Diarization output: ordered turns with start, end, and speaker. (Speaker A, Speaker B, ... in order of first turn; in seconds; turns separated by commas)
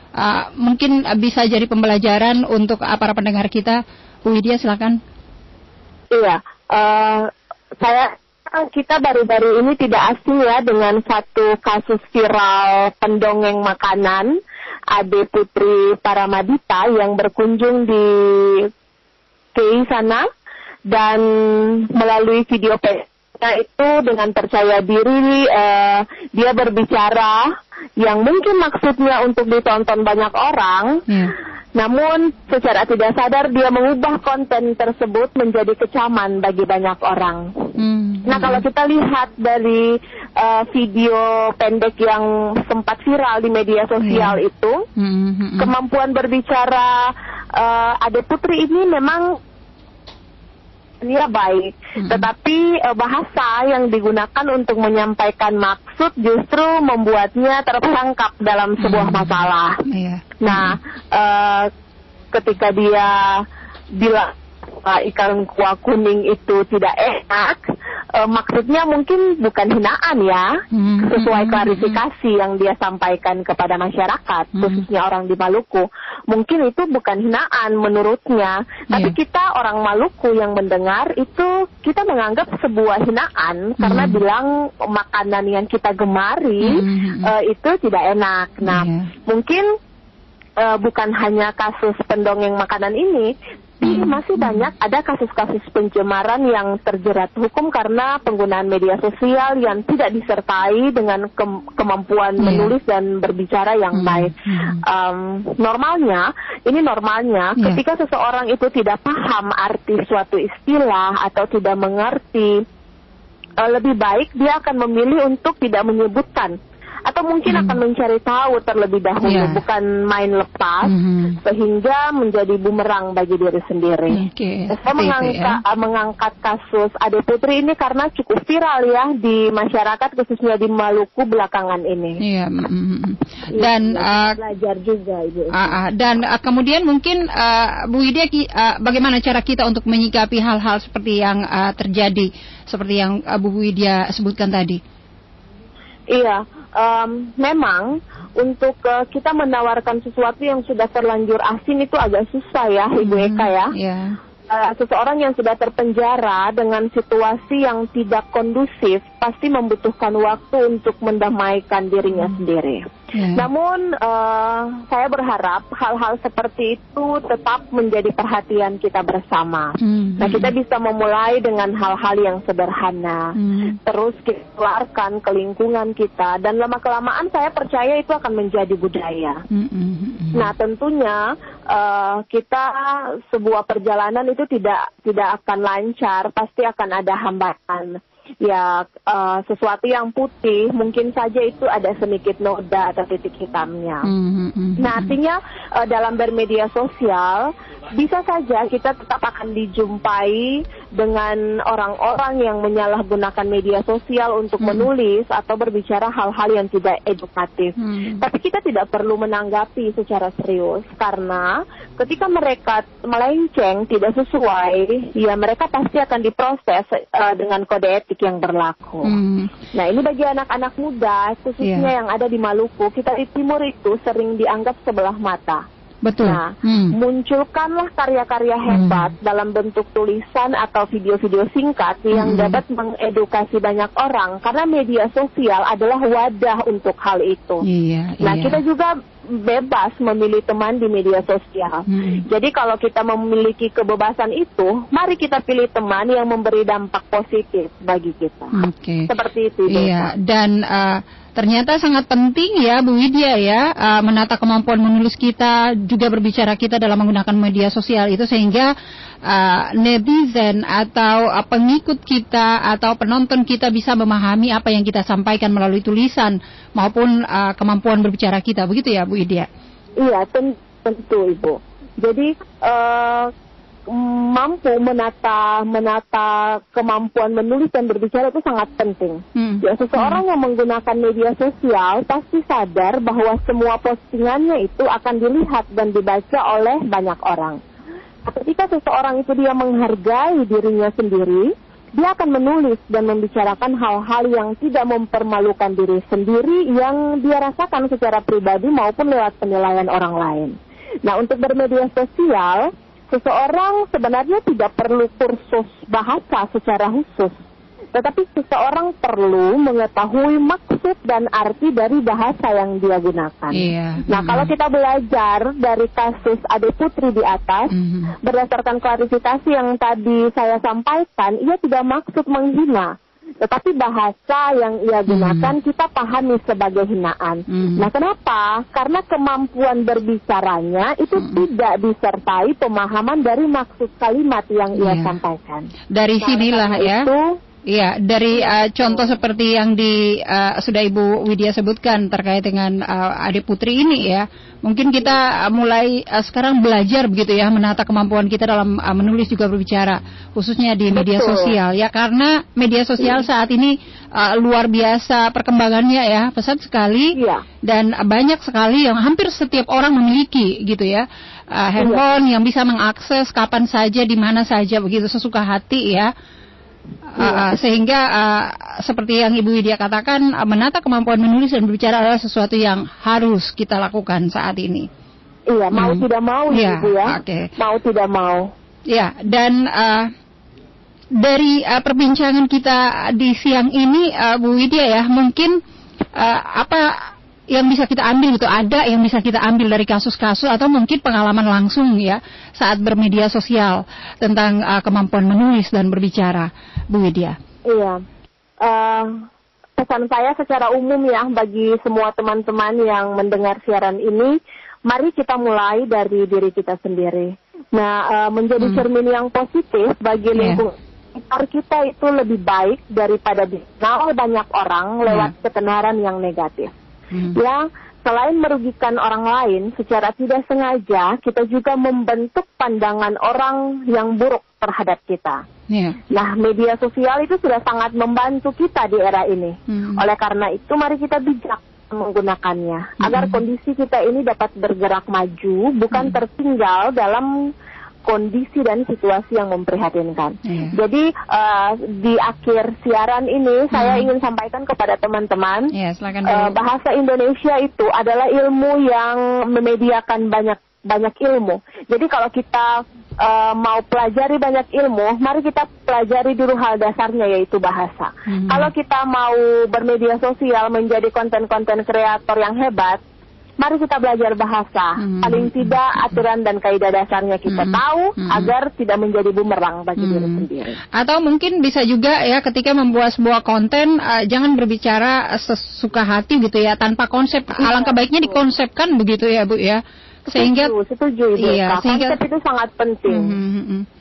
Speaker A: 0.2-5.0, Speaker B: 6.1-14.3, Speaker B: 14.9-18.7, Speaker B: 19.5-20.2, Speaker B: 20.9-31.0, Speaker A: 31.1-31.3, Speaker B: 31.8-37.7, Speaker A: 37.8-38.6, Speaker B: 38.2-44.8, Speaker A: 44.0-44.4, Speaker A: 45.0-45.7, Speaker B: 45.6-49.4, Speaker B: 51.0-59.8, Speaker A: 52.0-52.3, Speaker A: 58.8-60.8, Speaker B: 60.4-61.7, Speaker B: 62.3-89.7, Speaker A: 70.7-72.0, Speaker A: 74.5-74.8, Speaker A: 83.8-84.2, Speaker A: 86.6-87.3, Speaker A: 88.6-89.1, Speaker B: 90.6-112.5, Speaker A: 93.8-94.7, Speaker A: 102.4-102.7, Speaker A: 103.9-104.8, Speaker B: 113.6-116.5, Speaker B: 117.0-124.2, Speaker A: 117.5-117.8, Speaker A: 119.2-119.6, Speaker A: 120.8-121.4, Speaker A: 124.1-125.6, Speaker B: 124.7-132.2, Speaker A: 132.2-134.4, Speaker B: 133.5-135.8, Speaker A: 135.6-144.8, Speaker B: 146.1-153.7, Speaker A: 153.0-154.2, Speaker B: 154.5-179.4, Speaker A: 163.1-163.5, Speaker A: 169.8-170.5, Speaker A: 173.3-173.8, Speaker A: 179.5-180.5, Speaker B: 180.3-194.1, Speaker A: 194.0-195.1, Speaker B: 194.8-219.2, Speaker A: 204.6-204.9, Speaker A: 207.8-208.2, Speaker A: 219.0-219.5, Speaker B: 219.7-225.6, Speaker A: 221.6-221.9, Speaker A: 226.0-226.9, Speaker B: 226.2-237.6, Speaker A: 228.7-229.1, Speaker A: 232.1-232.6, Speaker A: 237.6-238.6, Speaker B: 238.2-248.5, Speaker A: 241.9-242.2, Speaker A: 248.6-249.1, Speaker B: 249.1-250.1, Speaker A: 249.7-258.7, Speaker A: 259.3-269.5, Speaker B: 270.0-273.3, Speaker B: 273.9-287.6, Speaker A: 279.4-280.2, Speaker B: 288.2-307.4, Speaker B: 307.9-317.7, Speaker A: 313.5-314.5, Speaker A: 317.7-318.1, Speaker B: 318.2-335.7, Speaker A: 325.1-325.5, Speaker A: 327.5-327.9, Speaker A: 331.2-331.4, Speaker A: 334.8-335.1, Speaker A: 335.9-337.1, Speaker B: 336.2-337.4, Speaker A: 337.7-357.1, Speaker B: 338.3-339.1, Speaker B: 350.9-351.6, Speaker B: 357.1-357.4, Speaker A: 357.7-366.1, Speaker B: 361.8-362.1, Speaker A: 367.1-374.9, Speaker B: 367.2-367.5, Speaker B: 375.5-378.5, Speaker A: 375.7-377.5, Speaker A: 378.9-380.1, Speaker A: 381.2-385.6, Speaker A: 386.1-397.4, Speaker B: 397.7-398.0, Speaker B: 398.6-399.2, Speaker B: 399.8-404.3, Speaker B: 404.9-416.7, Speaker A: 410.4-410.6, Speaker A: 415.0-415.3, Speaker A: 417.1-417.4, Speaker B: 417.3-425.4, Speaker A: 425.7-426.0, Speaker B: 426.1-437.3, Speaker A: 429.7-430.0, Speaker A: 433.0-433.4, Speaker A: 435.9-436.2, Speaker B: 438.0-445.7, Speaker A: 440.5-440.7, Speaker A: 443.7-444.1, Speaker A: 445.7-446.6, Speaker B: 446.2-463.0, Speaker A: 458.3-458.7, Speaker B: 463.6-470.8, Speaker A: 465.0-465.7, Speaker A: 467.5-468.5, Speaker A: 470.0-470.4, Speaker A: 471.0-480.7, Speaker B: 477.6-478.4, Speaker B: 480.3-483.3, Speaker A: 481.4-482.2, Speaker A: 483.1-483.9